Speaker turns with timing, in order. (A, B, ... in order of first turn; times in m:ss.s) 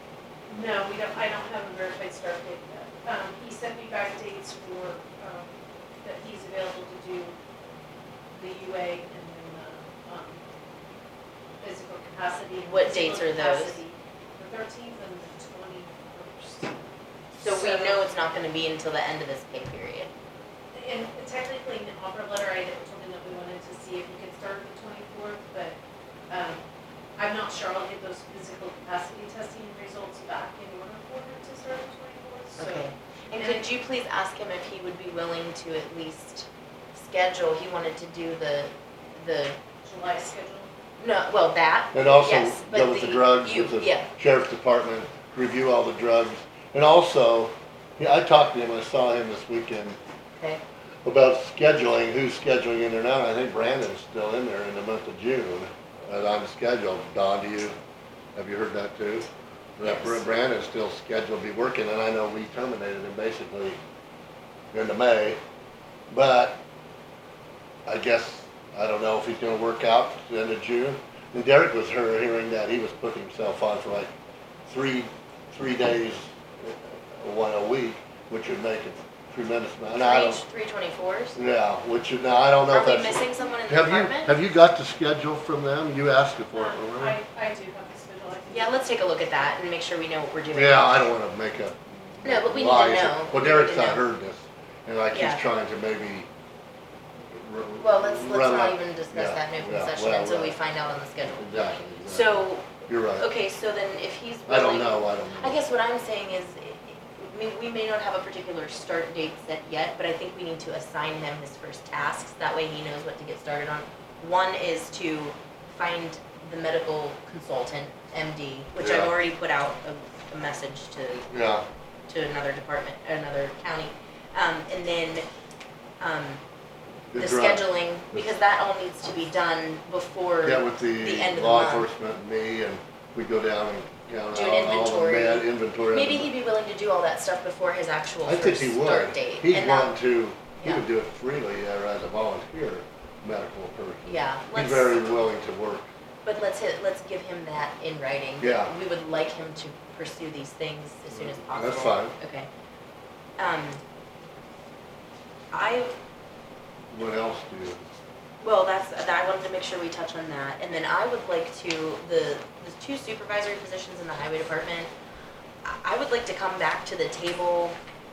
0:00.5-0:07.3 A
0:08.3-0:10.4 A
0:11.6-0:16.7 A
0:12.7-0:13.8 B
0:17.4-0:20.1 B
0:17.4-0:18.0 A
0:20.7-0:25.8 A
0:26.3-0:26.6 A
0:27.2-0:33.6 A
0:32.6-0:39.6 B
0:39.8-0:40.7 A
0:41.0-0:44.1 B
0:41.9-0:50.0 C
0:51.0-0:57.7 C
0:58.3-1:03.8 C
0:59.8-1:00.2 B
1:04.7-1:05.4 C
1:06.1-1:06.6 C
1:07.8-1:14.1 C
1:14.7-1:20.4 C
1:19.9-1:21.4 B
1:21.4-1:27.2 C
1:22.7-1:24.4 B
1:26.5-1:28.9 A
1:28.5-1:30.9 B
1:30.5-1:36.3 C
1:32.2-1:34.0 B
1:35.1-1:35.4 B
1:37.2-1:40.6 C
1:37.8-1:41.5 B
1:41.4-1:43.3 C
1:42.0-2:01.3 B
1:44.5-1:45.6 C
1:58.8-1:59.1 C
2:01.3-2:01.6 C
2:02.1-2:05.2 B
2:06.0-2:06.4 B
2:07.1-2:08.3 C
2:07.1-2:11.9 B
2:10.4-2:16.3 C
2:14.3-2:20.0 B
2:18.2-2:25.9 C
2:24.0-2:25.0 B
2:26.2-2:32.5 B
2:28.4-2:28.7 C
2:31.1-2:32.1 C
2:33.4-2:33.8 B
2:35.5-2:35.9 B
2:36.9-2:37.8 C
2:38.4-2:44.9 B
2:45.6-2:47.8 B